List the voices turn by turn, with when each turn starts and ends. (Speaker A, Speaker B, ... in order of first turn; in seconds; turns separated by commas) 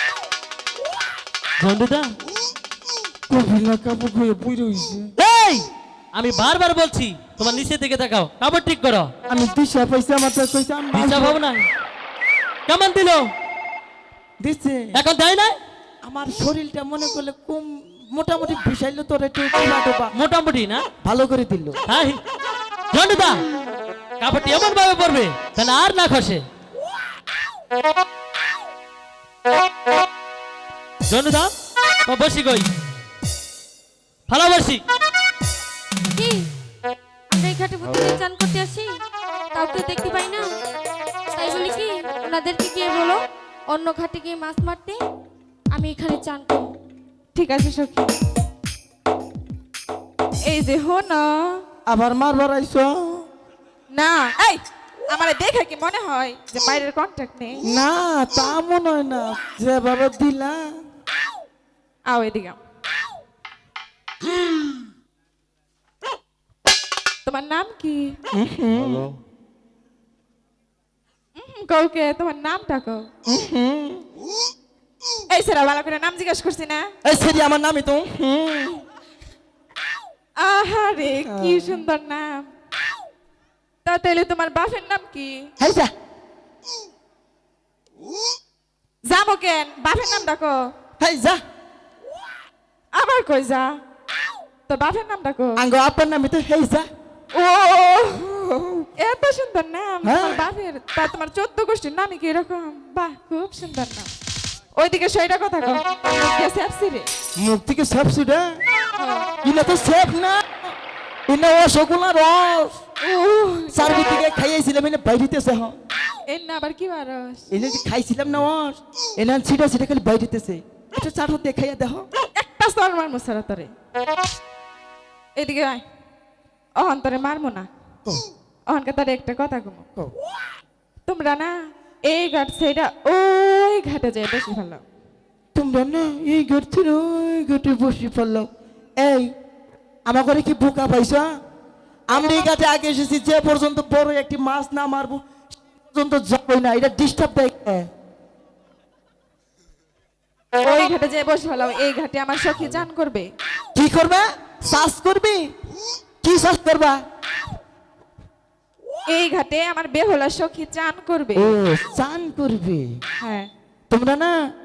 Speaker A: 1.6-2.1, Speaker B: 3.3-5.1, Speaker A: 5.2-9.1, Speaker B: 9.3-11.4, Speaker A: 10.9-11.7, Speaker A: 12.7-13.2, Speaker B: 14.4-15.0, Speaker A: 14.9-15.6, Speaker B: 16.0-20.1, Speaker A: 20.1-20.8, Speaker B: 21.0-21.8, Speaker A: 21.9-22.2, Speaker A: 22.9-23.4, Speaker A: 24.2-26.4, Speaker A: 31.1-31.5, Speaker A: 32.1-32.7, Speaker A: 34.3-34.8, Speaker C: 36.1-36.5, Speaker C: 37.3-39.0, Speaker C: 39.5-40.5, Speaker C: 41.4-45.0, Speaker C: 45.7-46.7, Speaker D: 47.4-48.1, Speaker D: 50.4-51.6, Speaker B: 51.9-53.3, Speaker D: 53.9-57.6, Speaker B: 57.6-60.7, Speaker D: 62.1-62.6, Speaker D: 67.3-68.2, Speaker B: 68.3-69.2, Speaker D: 71.3-73.1, Speaker B: 73.2-74.0, Speaker D: 75.3-76.9, Speaker B: 77.0-78.8, Speaker D: 80.4-82.5, Speaker B: 81.2-81.8, Speaker D: 83.8-85.5, Speaker B: 85.6-85.9, Speaker D: 89.0-90.7, Speaker B: 91.0-91.4, Speaker D: 92.9-93.8, Speaker D: 94.7-95.6, Speaker B: 95.6-96.9, Speaker D: 97.3-98.3, Speaker B: 98.3-98.9, Speaker D: 99.0-104.1, Speaker B: 100.0-100.4, Speaker D: 104.8-107.1, Speaker B: 107.4-108.6, Speaker D: 109.0-109.3, Speaker B: 109.4-110.8, Speaker B: 111.3-112.8, Speaker D: 113.0-114.1, Speaker B: 113.7-115.8, Speaker D: 116.3-117.5, Speaker B: 117.5-122.1, Speaker D: 122.4-123.7, Speaker D: 125.4-125.8, Speaker D: 126.8-127.7, Speaker D: 128.7-129.9, Speaker D: 131.1-134.8, Speaker B: 135.6-139.3, Speaker B: 140.1-141.3, Speaker B: 142.1-145.2, Speaker B: 145.9-147.9, Speaker D: 150.5-153.3, Speaker B: 153.8-155.5, Speaker B: 156.2-157.0, Speaker D: 159.1-161.5, Speaker B: 161.3-163.0, Speaker D: 163.2-163.5, Speaker B: 163.9-164.4